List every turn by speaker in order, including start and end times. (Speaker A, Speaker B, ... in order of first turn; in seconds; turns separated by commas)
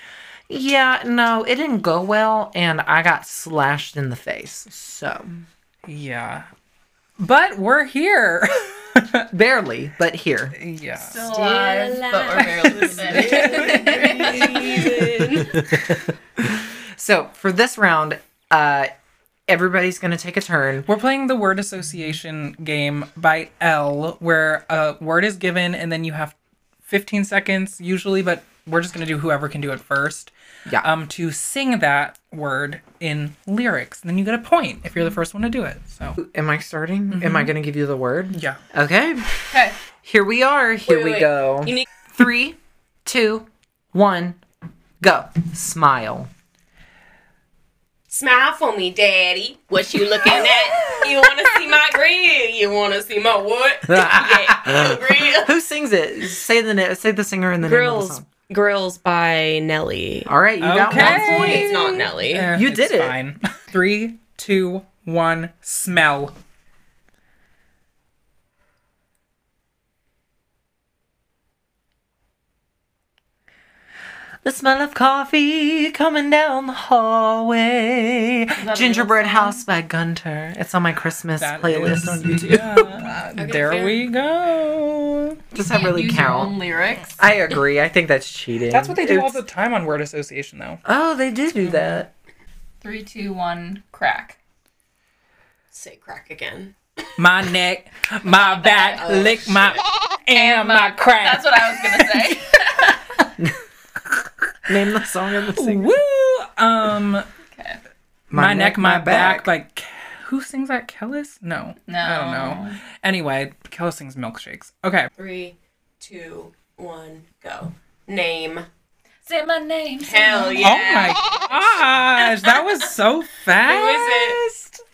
Speaker A: 0.5-5.5, Speaker B: 5.8-6.5, Speaker B: 7.2-9.3, Speaker A: 9.3-10.6, Speaker B: 10.6-11.3, Speaker C: 11.0-14.6, Speaker D: 11.2-15.7, Speaker B: 12.8-15.2, Speaker A: 13.1-18.9, Speaker A: 19.5-20.9, Speaker B: 20.9-36.2, Speaker A: 36.2-44.4, Speaker B: 37.1-37.5, Speaker B: 38.3-38.6, Speaker C: 39.5-39.8, Speaker D: 40.9-41.9, Speaker A: 45.0-46.3, Speaker D: 48.1-55.5, Speaker A: 50.3-51.1, Speaker A: 53.9-58.3, Speaker D: 57.6-60.3, Speaker A: 60.3-61.9, Speaker B: 60.6-66.3, Speaker D: 60.9-62.5, Speaker A: 62.5-63.2, Speaker A: 74.4-83.0, Speaker C: 78.6-79.6, Speaker B: 81.4-85.4, Speaker D: 83.4-84.0, Speaker A: 85.5-86.6, Speaker C: 85.7-87.2, Speaker A: 87.2-89.4, Speaker B: 88.7-90.8, Speaker A: 90.8-92.1, Speaker B: 91.6-92.0, Speaker C: 92.8-94.4, Speaker D: 95.7-96.8, Speaker B: 97.2-102.4, Speaker C: 98.3-99.1, Speaker D: 98.8-99.8, Speaker C: 100.3-103.1, Speaker A: 104.7-105.9, Speaker B: 105.5-107.3, Speaker A: 108.3-109.5, Speaker B: 108.3-115.1, Speaker C: 111.9-112.8, Speaker D: 115.2-118.7, Speaker C: 119.2-120.8, Speaker D: 120.0-121.3, Speaker B: 120.6-124.8, Speaker D: 123.6-124.4